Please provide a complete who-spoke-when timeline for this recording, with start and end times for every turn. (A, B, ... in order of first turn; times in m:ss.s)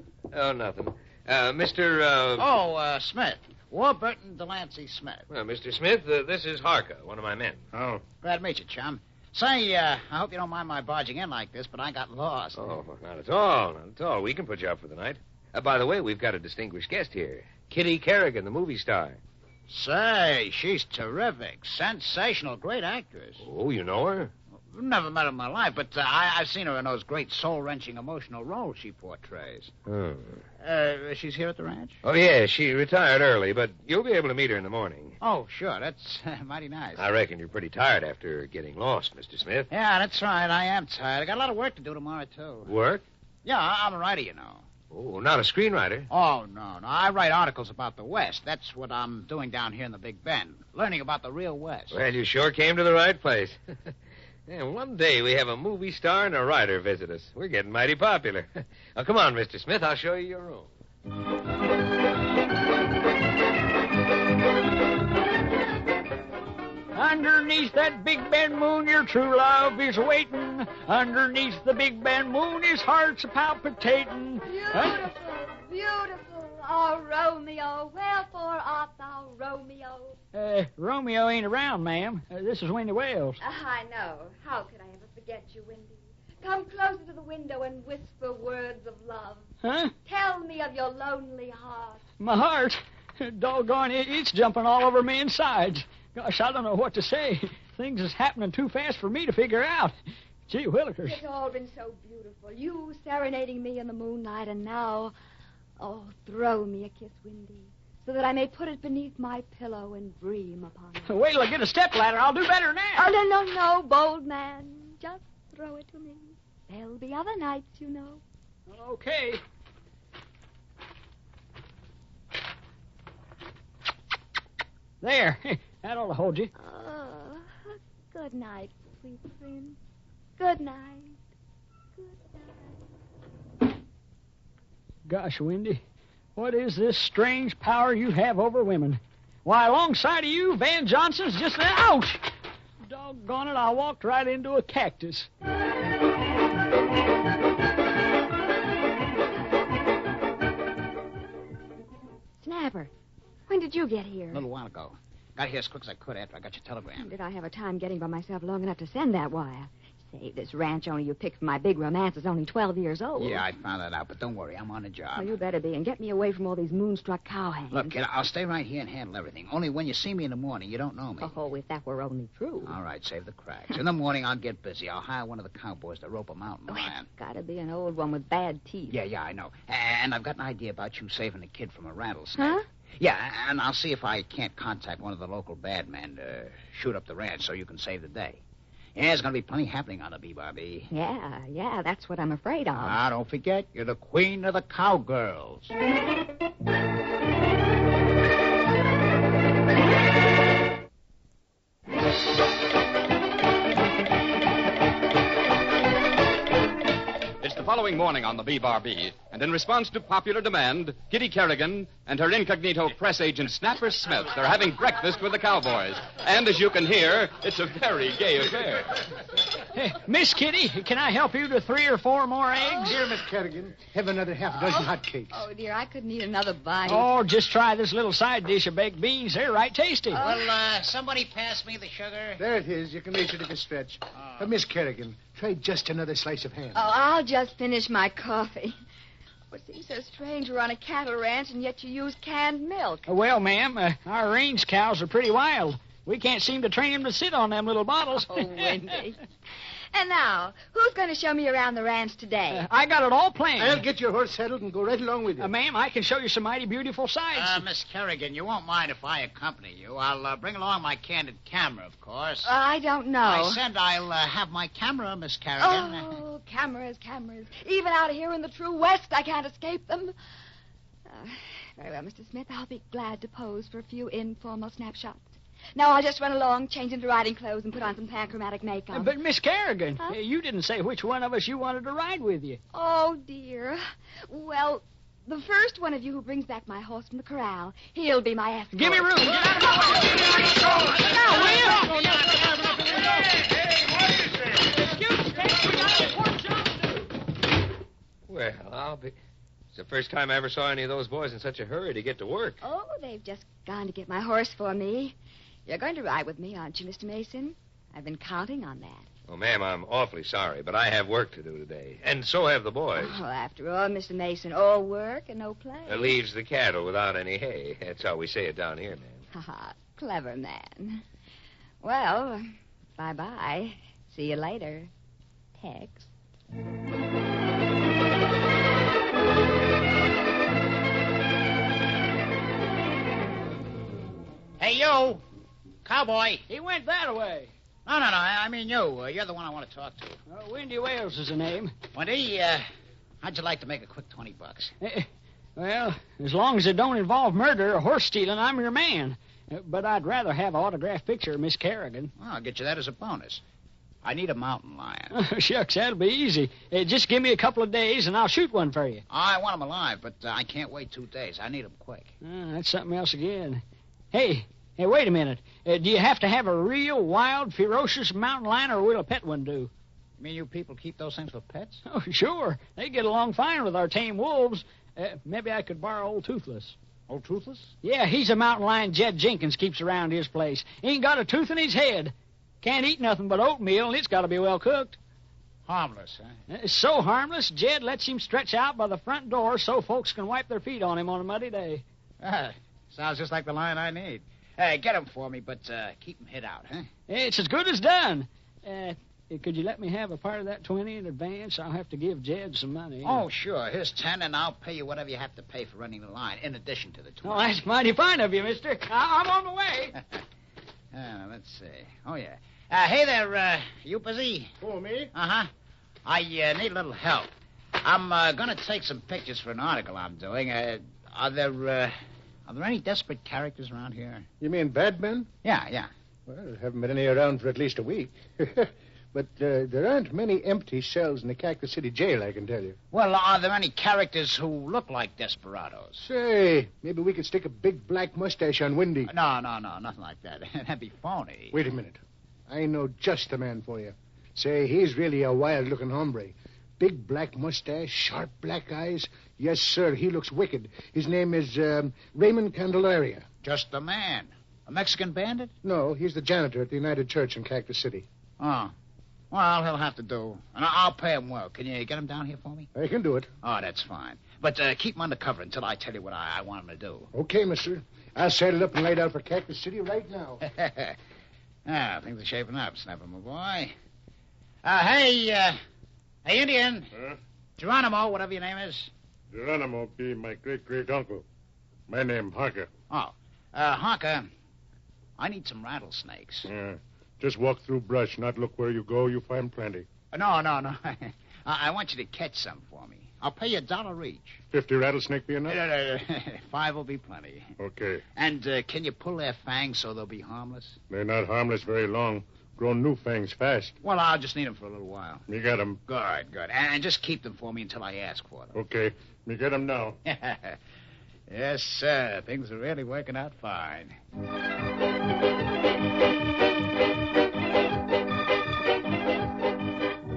0:00.3-0:02.5 A
0:02.4-0:05.3 B
0:05.3-0:07.6 A
0:07.7-0:08.0 C
0:08.2-0:12.7 B
0:12.6-0:19.2 A
0:19.7-0:23.4 B
0:23.4-0:24.3 A
0:24.7-0:29.7 B
0:29.8-0:30.4 A
0:30.6-0:32.0 B
0:32.0-0:35.2 A
0:35.2-0:37.0 B
0:37.0-0:39.7 A
0:39.7-0:42.7 B
0:42.7-0:43.0 A
0:43.4-0:44.6 B
0:44.9-0:46.1 A
0:46.1-0:52.0 B
0:51.9-0:53.9 A
0:54.5-1:00.7 A
1:06.9-1:15.1 D
1:14.4-1:20.2 E
1:20.3-1:23.4 D
1:23.4-1:29.4 E
1:29.6-1:29.9 D
1:30.0-1:32.0 E
1:32.2-1:39.9 D
1:40.5-1:41.2 D
1:41.0-1:45.1 E
1:45.8-1:51.1 E
1:51.1-1:53.1 D
1:52.9-1:58.2 E
1:58.7-1:59.4 D
2:05.0-2:06.5 D
2:06.6-2:09.8 E
2:10.4-2:11.2 E
2:12.0-2:12.8 E
2:15.1-2:15.8 D
2:16.4-2:22.2 D
2:22.9-2:25.3 D
2:32.4-2:32.9 E
2:33.5-2:34.4 E
2:34.3-2:37.1 B
2:37.0-2:43.4 E
2:43.2-2:45.3 B
2:45.1-2:48.0 E
2:47.7-2:51.3 B
2:51.2-2:52.8 E
2:52.6-2:57.1 B
2:56.7-2:59.0 E
2:58.9-3:08.4 B
3:02.4-3:02.6 E
3:09.0-3:10.9 B
3:10.9-3:13.0 E
3:12.8-3:15.7 B
3:27.4-3:39.0 F
3:39.7-3:42.9 D
3:42.6-3:43.0 E
3:42.8-3:45.4 G
3:44.6-3:47.1 E
3:46.8-3:50.2 D
3:50.1-3:50.5 E
3:50.2-3:52.4 B
3:52.4-3:56.8 G
3:54.1-3:54.5 B
3:56.7-3:58.7 E
3:59.5-4:03.1 E
4:03.1-4:08.9 D
4:08.2-4:09.2 E
4:09.9-4:12.6 E
4:12.5-4:13.8 D
4:13.6-4:15.5 G
4:15.4-4:17.6 D
4:17.3-4:22.5 B
4:22.4-4:23.6 E
4:23.2-4:26.2 B
4:25.6-4:30.1 E
4:31.0-4:39.1 E
4:38.9-4:42.6 D
4:42.7-4:50.0 E
4:48.7-4:52.0 D
4:51.2-4:53.2 G
4:54.6-4:57.1 D
4:58.3-4:59.1 A
4:59.7-5:02.6 A
5:02.6-5:05.1 E
5:05.6-5:09.0 E
5:09.3-5:13.2 A
5:13.0-5:16.1 E
5:15.9-5:19.2 A
5:19.3-5:21.0 E
5:21.8-5:24.9 E
5:25.6-5:26.1 E
5:34.6-5:35.2 B
5:35.8-5:36.4 B
5:36.5-5:37.5 D
5:37.8-5:40.2 B
5:40.3-5:41.7 D
5:41.9-5:42.6 B
5:43.2-5:44.7 B
5:44.8-5:52.1 D
5:52.2-5:53.4 B
5:54.0-5:55.1 B
5:55.1-5:59.0 D
5:59.1-6:02.1 B
6:02.2-6:09.7 D
6:10.2-6:11.8 B
6:11.9-6:16.7 D
6:17.1-6:17.7 B
6:17.8-6:25.0 D
6:25.6-6:26.3 B
6:26.5-6:31.8 D
6:32.2-6:36.9 B
6:37.1-6:43.2 D
6:43.0-6:47.6 B
6:47.2-6:49.9 D
6:50.9-6:54.5 B
6:54.6-6:55.1 G
6:55.1-6:55.5 B
6:56.0-7:01.9 B
7:02.5-7:04.3 B
7:04.4-7:05.3 G
7:05.4-7:05.9 B
7:06.2-7:12.8 G
7:12.9-7:16.0 B
7:16.0-7:19.1 G
7:19.1-7:21.6 B
7:21.5-7:33.2 G
7:33.4-7:35.5 B
7:35.6-7:38.0 G
7:38.4-7:38.7 B
7:39.3-7:42.7 B
7:42.7-7:43.3 G
7:43.4-7:47.1 B
7:47.1-7:50.4 G
7:50.4-7:51.0 B
7:51.6-7:53.7 B
7:54.6-7:55.6 B
7:56.2-7:56.9 B
7:57.6-7:58.9 B
7:59.3-8:01.2 C
8:01.9-8:02.7 C
8:02.9-8:04.3 B
8:05.2-8:06.5 B
8:06.5-8:09.8 C
8:10.1-8:14.4 B
8:14.5-8:15.6 C
8:15.5-8:17.5 B
8:17.6-8:18.0 C
8:18.1-8:20.8 B
8:20.9-8:23.7 C
8:23.8-8:25.3 B
8:25.3-8:25.8 C
8:25.8-8:28.5 B
8:28.5-8:30.0 C
8:30.0-8:30.6 B
8:31.3-8:34.0 B